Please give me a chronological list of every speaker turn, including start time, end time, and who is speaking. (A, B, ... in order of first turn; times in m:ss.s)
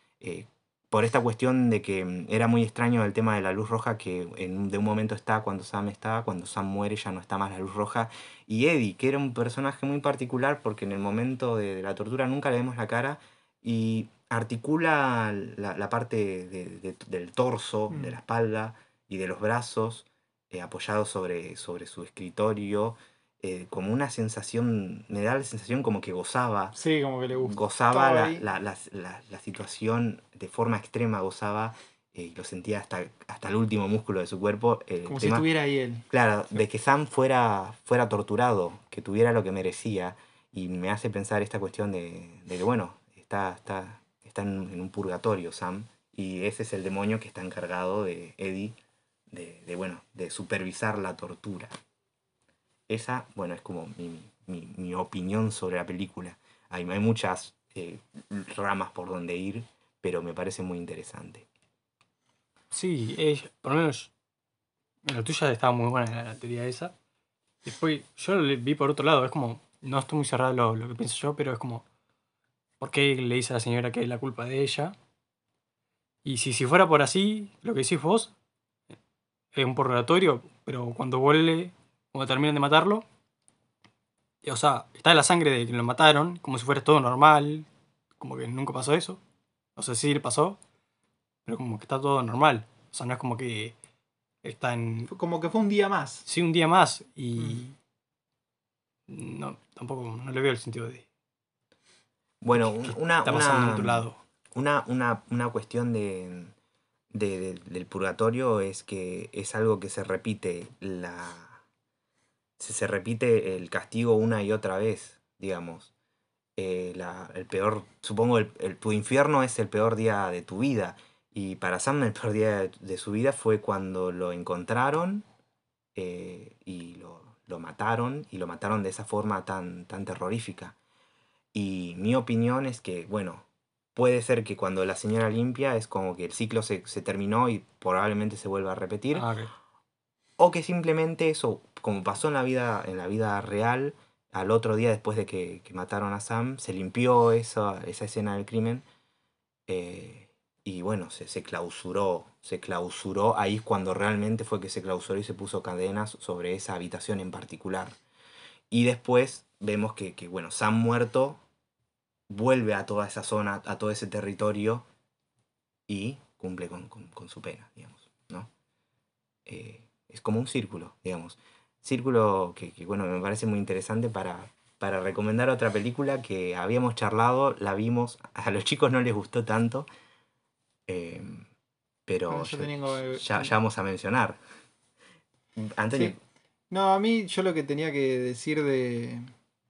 0:00.2-0:26.8 A
0:17.9-0:18.2 B
0:26.8-0:28.4 B
0:27.4-0:35.5 A
0:35.1-0:36.0 B
0:36.1-0:48.8 A
0:49.3-0:51.7 A
0:52.9-1:01.5 A
1:02.7-1:04.1 C
1:05.0-1:06.9 C
1:07.6-1:11.8 C
1:12.8-1:15.0 C
1:16.2-1:18.3 C
1:19.5-1:23.0 C
1:24.4-1:27.7 C
1:28.2-1:29.2 C
1:29.8-1:30.6 C
1:31.5-1:33.7 C
1:34.4-1:35.1 C
1:35.1-1:36.3 B
1:36.3-1:37.8 C
1:39.1-1:41.0 C
1:42.4-1:46.5 A
1:42.6-1:44.2 C
1:47.1-1:51.6 A
1:52.6-1:55.9 A
1:56.6-2:05.3 A
2:06.0-2:10.8 A
2:11.5-2:19.3 A
2:19.1-2:19.5 C
2:20.4-2:28.8 A
2:29.7-2:38.0 A
2:38.7-2:41.4 A
2:42.3-2:44.9 A
2:45.9-2:48.5 A
2:49.5-2:59.9 A
3:00.9-3:01.5 A
3:02.1-3:04.4 A
3:02.3-3:03.5 B
3:05.6-3:06.2 A
3:06.7-3:09.3 B